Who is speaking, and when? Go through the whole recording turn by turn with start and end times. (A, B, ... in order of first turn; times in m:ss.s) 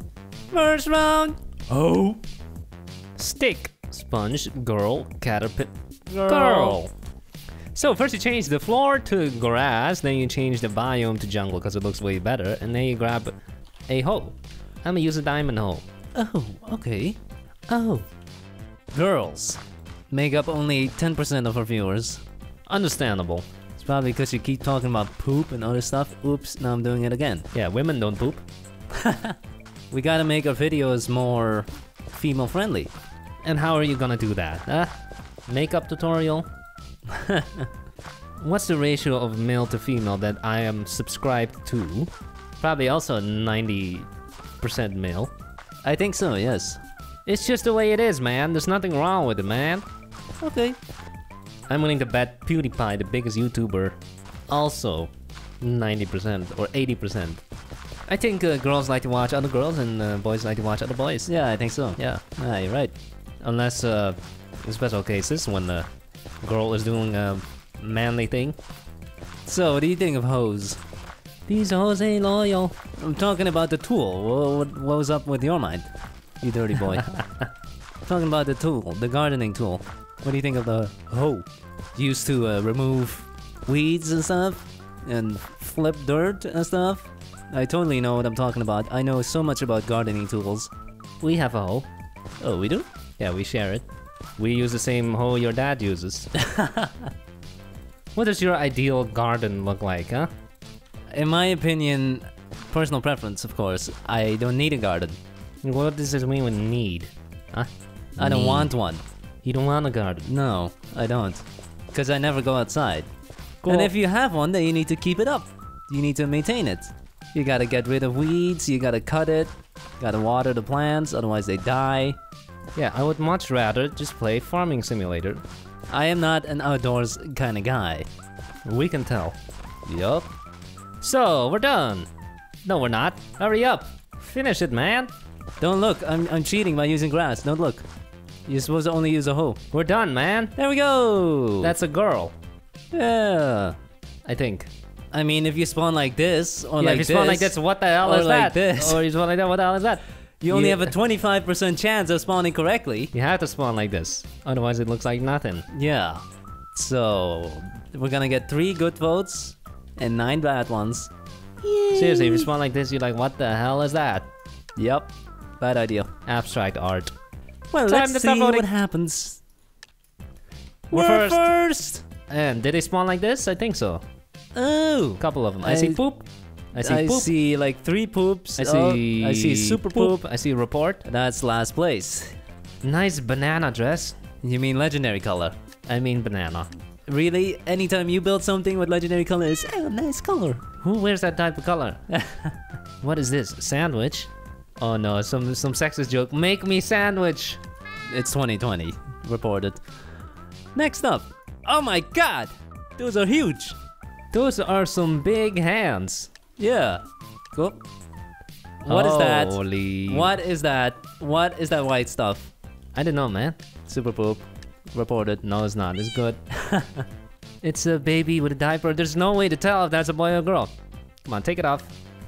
0:00.5-0:01.4 A
0:01.7-0:02.2 B
0:03.2-0:05.7 B
0:06.1-0:06.8 A
0:06.3-0:06.9 B
0:07.7-0:13.3 B
0:13.9-0:15.8 B
0:16.2-0:17.2 A
0:17.7-0:18.0 B
0:18.9-0:22.2 A
0:22.7-0:23.5 B
0:23.8-0:27.5 A
0:27.5-0:28.4 B
0:29.0-0:29.4 A
0:29.9-0:32.9 A
0:33.4-0:34.9 B
0:35.5-0:36.5 B
0:37.1-0:37.7 A
0:38.4-0:44.1 B
0:44.6-0:45.3 B
0:45.8-0:46.8 A
0:47.3-0:49.8 B
0:50.4-0:50.8 A
0:51.7-0:54.0 B
0:54.5-0:55.1 B
0:55.6-0:57.4 B
0:58.1-1:01.3 B
1:01.3-1:02.9 A
1:02.0-1:02.2 B
1:03.4-1:05.9 B
1:06.4-1:08.6 B
1:09.4-1:10.8 A
1:11.5-1:12.8 B
1:13.0-1:17.2 A
1:18.0-1:21.0 A
1:21.1-1:21.4 B
1:22.0-1:30.7 A
1:31.2-1:31.9 B
1:32.4-1:32.9 A
1:33.2-1:33.8 B
1:34.4-1:36.3 B
1:36.5-1:36.9 A
1:38.2-1:40.3 B
1:41.1-1:45.2 A
1:45.6-1:48.7 B
1:48.2-1:49.0 A
1:49.4-1:50.3 B
1:50.2-1:53.1 A
1:53.6-1:53.9 B
1:53.7-2:02.2 A
2:02.8-2:05.4 B
2:05.9-2:08.1 A
2:08.6-2:09.4 B
2:09.9-2:10.3 A
2:11.0-2:12.1 B
2:12.6-2:15.1 B
2:15.6-2:17.9 A
2:18.5-2:19.6 A
2:19.7-2:20.5 B
2:20.6-2:21.7 A
2:21.6-2:22.3 B
2:22.9-2:23.8 A
2:24.3-2:24.7 B
2:25.1-2:29.0 A
2:26.8-2:31.0 B
2:30.4-2:33.1 A
2:33.1-2:35.7 B
2:35.7-2:41.1 A
2:41.6-2:42.5 A
2:42.0-2:44.3 B
2:44.8-2:46.1 A
2:46.3-2:47.1 B
2:47.7-2:49.4 A
2:47.8-2:48.7 B
2:50.9-2:51.5 B
2:50.9-2:52.0 A
2:52.3-2:54.0 B
2:54.6-2:56.1 A
2:55.2-2:57.3 B
2:56.8-3:00.2 A
2:58.6-3:01.0 B
3:01.0-3:02.4 A
3:02.8-3:04.2 B
3:04.4-3:05.5 A
3:05.9-3:06.7 B
3:07.1-3:10.6 A
3:10.8-3:12.0 B
3:12.2-3:12.5 A
3:13.0-3:17.6 B
3:18.1-3:19.9 A
3:20.8-3:23.8 A
3:24.3-3:26.3 B
3:26.6-3:27.8 A
3:28.8-3:32.5 A
3:28.9-3:30.4 B
3:33.0-3:33.6 B
3:33.9-3:35.4 A
3:35.4-3:36.4 B
3:36.6-3:37.0 A
3:37.6-3:40.7 B
3:41.3-3:41.9 B